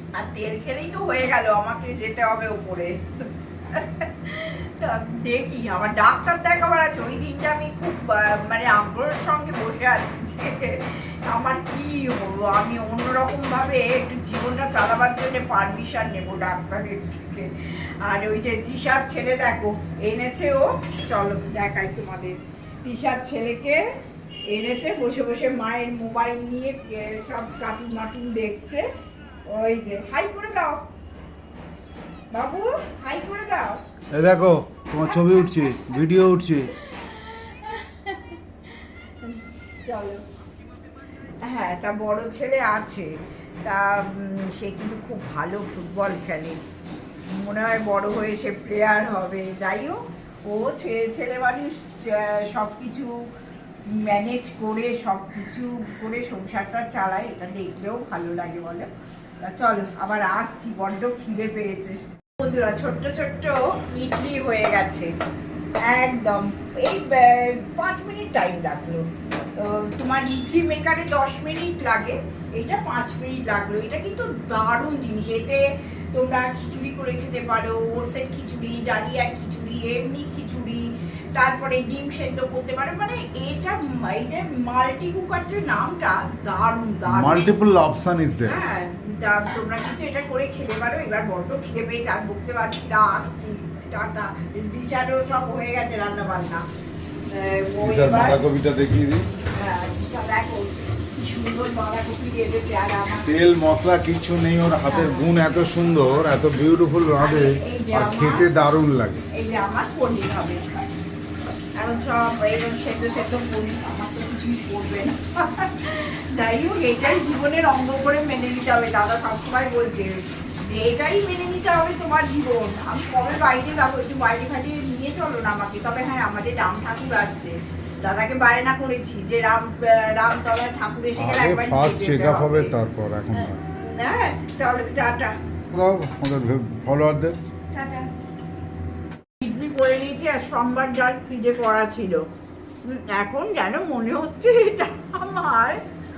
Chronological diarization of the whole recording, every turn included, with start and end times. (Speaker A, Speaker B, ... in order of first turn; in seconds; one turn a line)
Speaker A: 0.1-23.8
Speaker A: 24.5-28.9
Speaker A: 29.4-30.9
Speaker A: 32.3-33.8
Speaker B: 34.1-36.7
Speaker A: 35.0-36.1
Speaker A: 36.7-40.2
Speaker A: 41.4-43.1
Speaker A: 43.6-46.6
Speaker A: 47.2-53.1
Speaker A: 53.9-58.9
Speaker A: 59.4-65.1
Speaker A: 65.8-80.8
Speaker A: 81.4-87.5
Speaker B: 87.1-88.6
Speaker A: 88.4-96.6
Speaker A: 97.3-98.4
Speaker B: 97.8-99.2
Speaker A: 99.5-103.4
Speaker B: 103.2-109.2
Speaker A: 104.9-105.3
Speaker A: 107.2-108.5
Speaker A: 109.3-110.6
Speaker A: 111.8-132.7
Speaker B: 131.2-133.6
Speaker A: 133.3-135.3
Speaker B: 135.7-137.4
Speaker A: 137.7-138.1
Speaker A: 139.4-142.2
Speaker A: 142.8-145.8